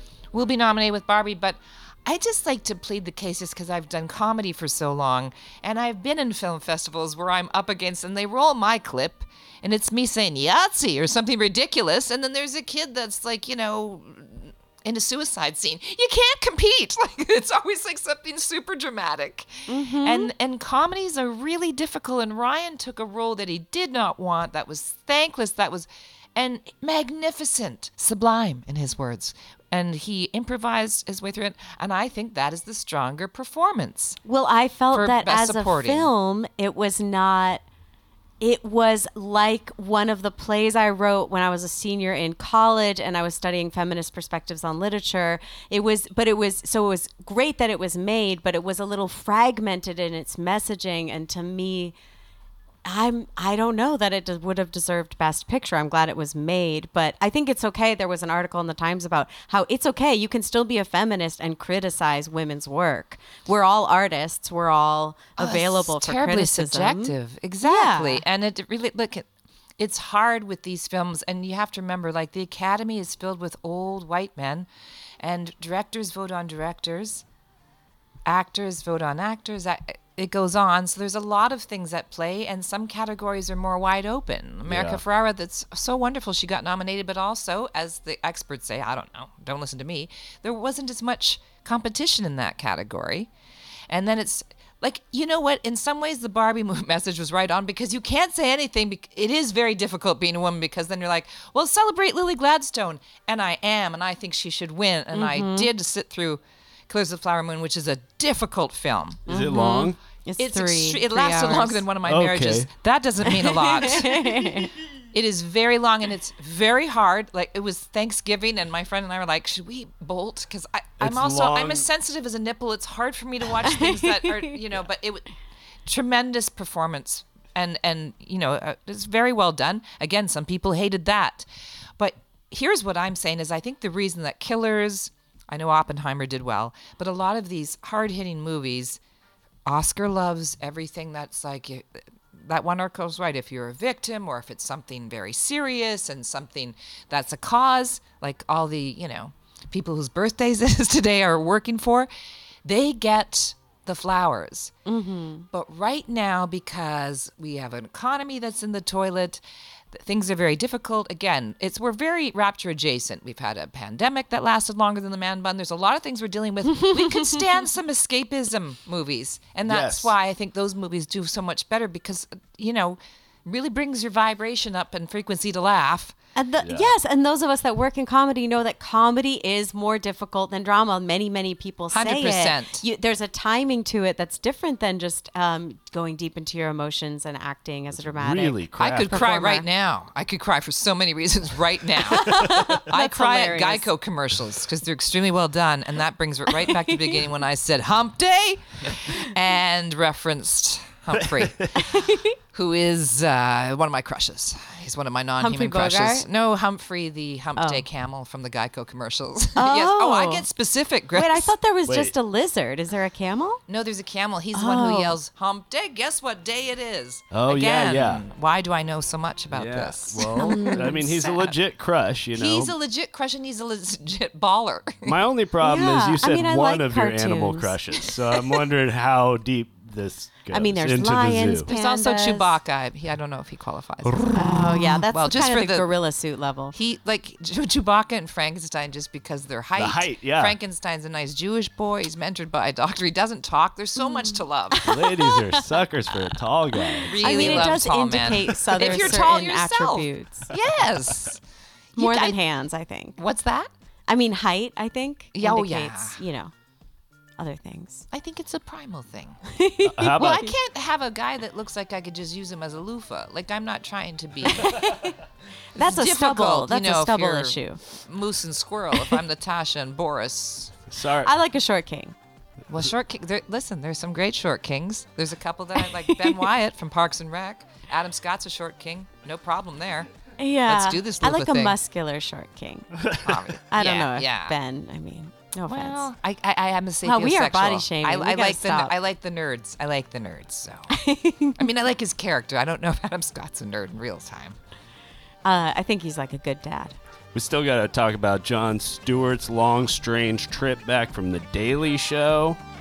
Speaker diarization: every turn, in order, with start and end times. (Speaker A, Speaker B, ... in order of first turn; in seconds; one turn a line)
Speaker A: 0.3-34.2
Speaker B: 19.7-20.3
Speaker B: 34.2-37.6
Speaker A: 34.9-36.1
Speaker B: 38.4-51.9
Speaker B: 52.8-68.2
Speaker A: 65.4-69.2
Speaker A: 69.8-74.7
Speaker A: 75.2-77.2
Speaker A: 78.2-93.3
Speaker C: 84.7-85.0
Speaker A: 93.9-109.2
Speaker B: 105.1-105.7
Speaker C: 109.3-110.0
Speaker B: 109.3-111.8
Speaker A: 110.4-114.5
Speaker C: 112.0-112.7
Speaker B: 113.2-114.7
Speaker A: 115.1-125.3
Speaker C: 121.0-121.8
Speaker B: 123.7-124.5
Speaker A: 125.8-131.4
Speaker A: 132.0-139.0
Speaker A: 139.7-152.1
Speaker A: 152.6-154.7
Speaker B: 154.9-155.4
Speaker A: 155.5-159.4
Speaker A: 159.9-176.1
Speaker B: 166.7-167.4
Speaker C: 169.7-170.1
Speaker B: 176.3-189.7
Speaker C: 176.6-176.9
Speaker A: 181.9-182.8
Speaker C: 187.9-189.2
Speaker A: 188.8-201.8
Speaker B: 192.1-193.9
Speaker B: 196.7-197.1
Speaker C: 201.1-201.8
Speaker B: 201.8-202.3
Speaker A: 202.5-211.5
Speaker B: 205.4-206.2
Speaker B: 207.6-207.8
Speaker B: 209.6-210.4
Speaker B: 211.1-213.6
Speaker C: 211.9-212.1
Speaker A: 213.7-221.6
Speaker B: 214.5-215.2
Speaker C: 217.3-218.2
Speaker C: 219.5-222.7
Speaker B: 220.3-221.0
Speaker A: 222.3-225.2
Speaker C: 225.0-231.7
Speaker B: 225.6-227.8
Speaker B: 230.5-232.5
Speaker A: 231.7-234.6
Speaker C: 234.0-234.8
Speaker B: 234.3-236.7
Speaker A: 235.1-235.9
Speaker A: 236.7-244.8
Speaker C: 239.8-240.6
Speaker B: 244.0-245.7
Speaker C: 244.8-248.2
Speaker B: 246.8-250.5
Speaker A: 247.1-251.4
Speaker C: 248.9-249.2
Speaker A: 251.9-252.4
Speaker B: 252.0-253.2
Speaker A: 253.2-253.7
Speaker B: 254.1-256.5
Speaker A: 255.3-256.2
Speaker B: 257.4-258.1
Speaker A: 258.1-259.4
Speaker B: 259.5-260.5
Speaker C: 259.8-260.4
Speaker A: 260.2-264.9
Speaker B: 264.5-265.2
Speaker B: 265.7-267.8
Speaker A: 265.8-270.8
Speaker C: 270.9-271.3
Speaker B: 271.2-272.1
Speaker A: 272.7-280.1
Speaker B: 275.8-276.4
Speaker B: 280.4-282.9
Speaker A: 280.7-281.8
Speaker C: 283.0-283.3
Speaker A: 283.2-284.6
Speaker B: 283.7-286.0
Speaker A: 285.7-290.9
Speaker B: 287.0-288.9
Speaker B: 290.9-291.6
Speaker A: 291.6-294.6
Speaker B: 295.4-296.9
Speaker C: 297.3-302.6